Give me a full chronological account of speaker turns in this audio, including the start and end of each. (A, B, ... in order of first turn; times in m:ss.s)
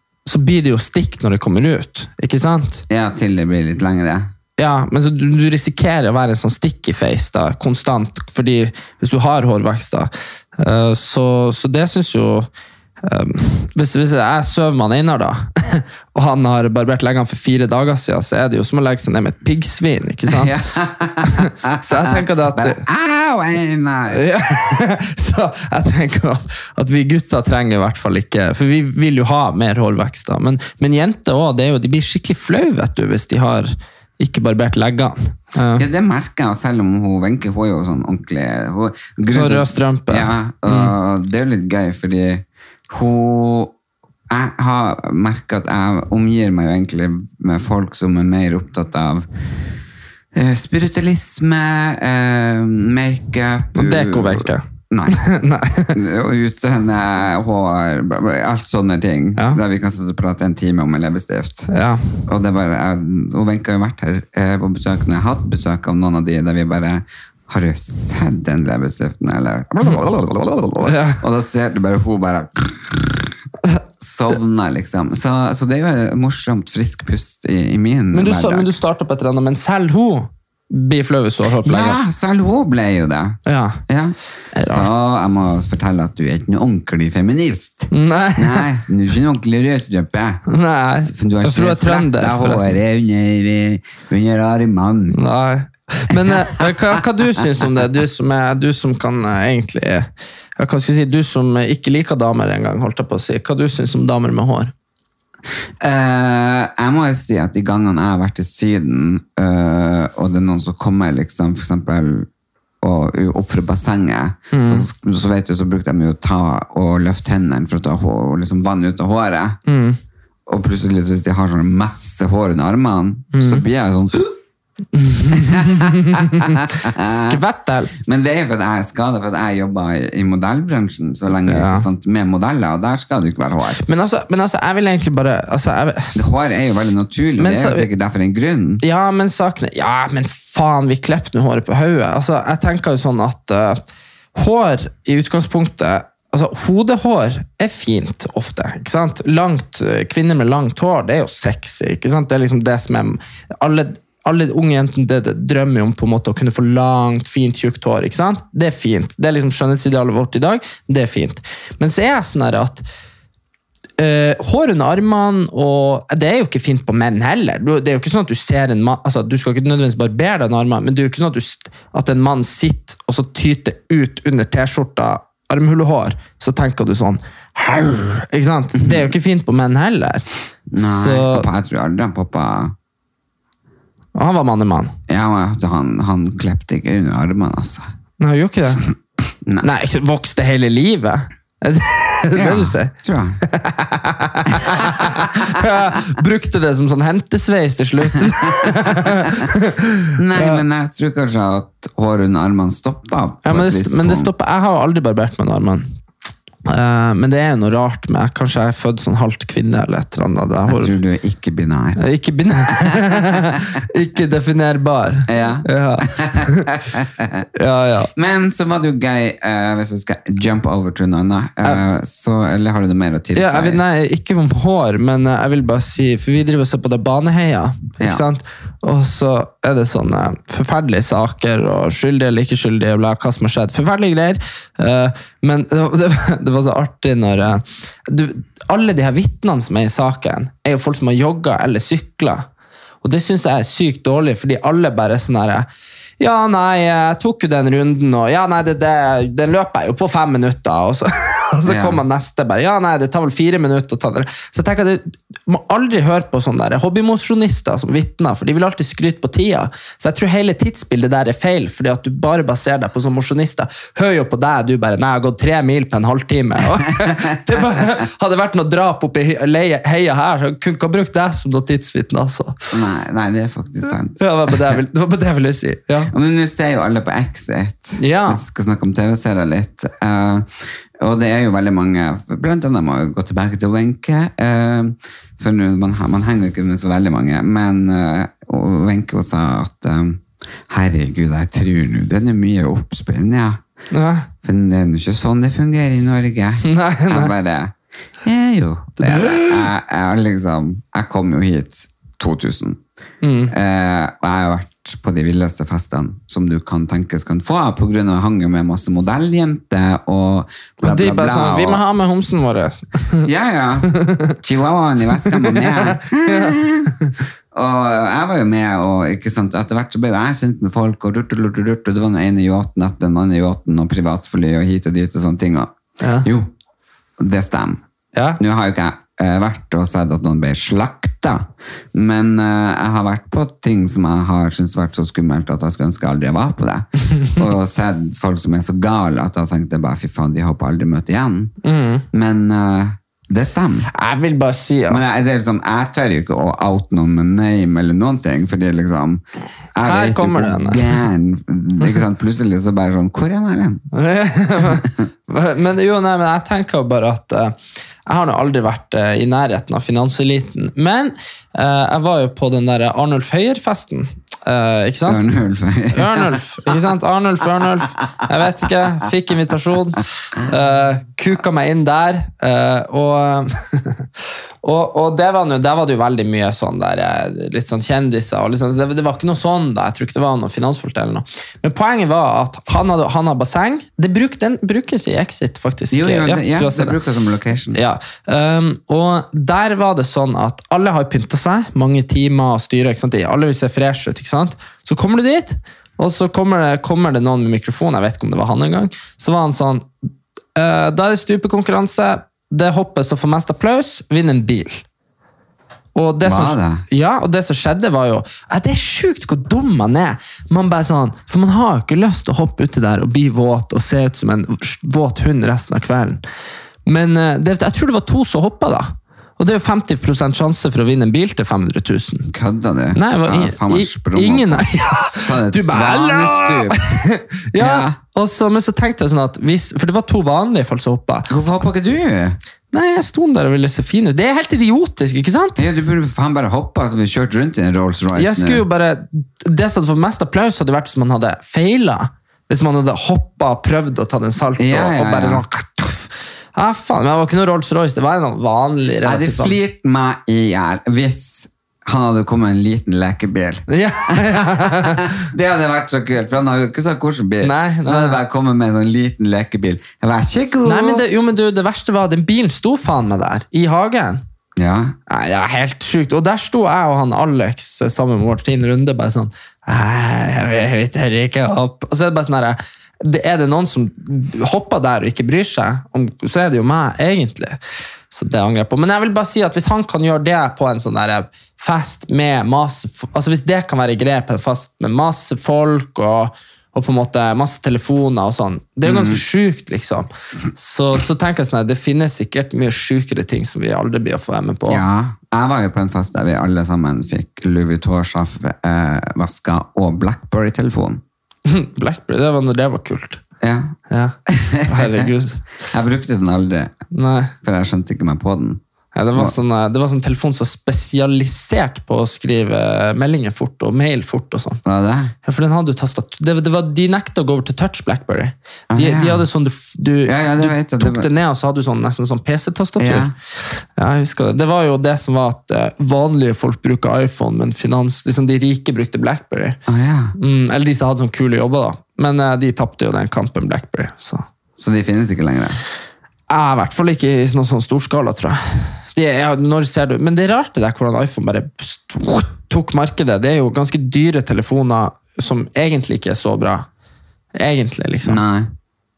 0:00.3-0:02.8 A
0:02.9-0:04.3 B
0:04.6-0:12.5 A
0:13.0-0:20.5 A
0:20.3-0:24.2 B
0:21.3-0:22.8 A
0:24.1-0:35.9 A
0:35.8-0:43.7 B
0:39.3-0:40.9 A
0:44.3-0:49.3 B
0:50.3-0:55.3 B
0:53.8-0:56.0 A
0:55.9-1:01.7 B
1:01.7-1:02.2 A
1:02.3-1:13.4 B
1:10.8-1:11.2 A
1:14.0-1:18.7 B
1:18.1-1:22.0 A
1:21.6-1:30.4 B
1:23.5-1:23.8 A
1:24.5-1:24.9 A
1:27.9-1:28.7 A
1:30.5-1:32.8 A
1:31.0-1:35.2 B
1:35.1-1:44.7 A
1:36.1-1:37.0 B
1:45.8-1:52.3 B
1:52.8-1:59.6 B
1:54.5-1:54.9 A
1:59.7-2:00.0 A
2:00.5-2:04.2 B
2:03.3-2:03.6 A
2:04.9-2:07.9 A
2:05.3-2:07.4 B
2:07.9-2:13.8 B
2:11.5-2:11.9 A
2:13.8-2:16.2 A
2:16.2-2:18.8 B
2:17.4-2:17.9 A
2:18.8-2:23.8 A
2:24.4-2:42.8 A
2:44.0-3:00.2 A
2:58.8-2:59.0 B
3:00.7-3:02.8 B
3:00.8-3:01.5 A
3:04.2-3:05.0 A
3:05.1-3:07.8 B
3:08.2-3:08.8 A
3:09.6-3:20.6 A
3:12.3-3:13.4 B
3:14.5-3:15.2 B
3:18.3-3:18.7 B
3:20.2-3:24.3 B
3:23.4-3:25.9 A
3:26.6-3:30.9 A
3:30.7-3:32.0 B
3:32.0-3:36.7 A
3:32.7-3:33.5 B
3:35.3-3:37.5 B
3:37.6-3:38.1 A
3:38.2-3:43.8 B
3:43.4-4:02.4 A
4:03.0-4:05.7 A
4:06.2-4:32.6 A
4:11.6-4:12.0 B
4:32.7-4:34.8 B
4:34.2-4:36.1 A
4:36.1-4:53.6 B
4:38.0-4:38.4 A
4:53.9-4:54.3 A
4:54.4-5:02.8 B
4:56.6-4:57.3 A
4:59.0-4:59.6 A
5:03.2-5:03.5 A
5:03.5-5:11.8 B
5:10.8-5:13.3 A
5:13.2-5:17.0 B
5:14.0-5:14.3 A
5:15.2-5:17.1 A
5:17.5-5:26.5 B
5:26.0-5:26.3 A
5:27.2-5:27.8 B
5:28.2-5:28.4 A
5:28.4-5:41.6 B
5:41.6-5:42.0 A
5:42.1-5:43.9 B
5:43.9-5:45.0 A
5:44.9-5:49.2 B
5:49.8-5:53.8 B
5:49.8-5:51.0 A
5:53.9-5:57.6 A
5:58.1-6:05.3 A
6:05.0-6:06.4 B
6:05.9-6:14.1 A
6:14.6-6:27.0 A
6:25.9-6:27.8 B
6:27.7-6:39.9 A
6:40.6-6:44.8 A
6:46.0-6:56.2 A
6:46.2-6:46.8 B
6:56.9-7:02.3 A
7:02.3-7:07.0 B
7:03.0-7:11.3 A
7:07.6-7:08.0 B
7:11.3-7:12.4 B
7:12.7-7:15.6 A
7:15.6-7:18.6 B
7:18.2-7:29.6 A
7:24.6-7:25.4 B
7:29.0-7:41.0 B
7:33.7-7:35.1 A
7:37.4-7:38.2 A
7:40.6-7:44.2 A
7:44.6-7:45.0 B
7:45.1-7:57.6 A
7:58.1-8:14.8 A
8:08.8-8:09.2 B
8:14.7-8:21.0 B
8:21.5-8:23.2 A
8:23.4-8:25.1 B
8:23.9-8:25.4 A
8:25.6-8:26.8 B
8:26.9-8:27.3 A
8:27.4-8:28.6 B
8:29.0-8:34.6 A
8:34.6-8:35.1 B
8:35.2-8:49.6 A
8:38.7-8:39.3 B
8:40.0-8:41.1 B
8:42.8-8:43.1 B
8:49.7-8:50.2 B
8:50.2-8:54.2 A
8:54.6-8:55.6 B
8:56.3-9:06.7 A
9:07.4-9:08.2 A
9:08.0-9:08.5 B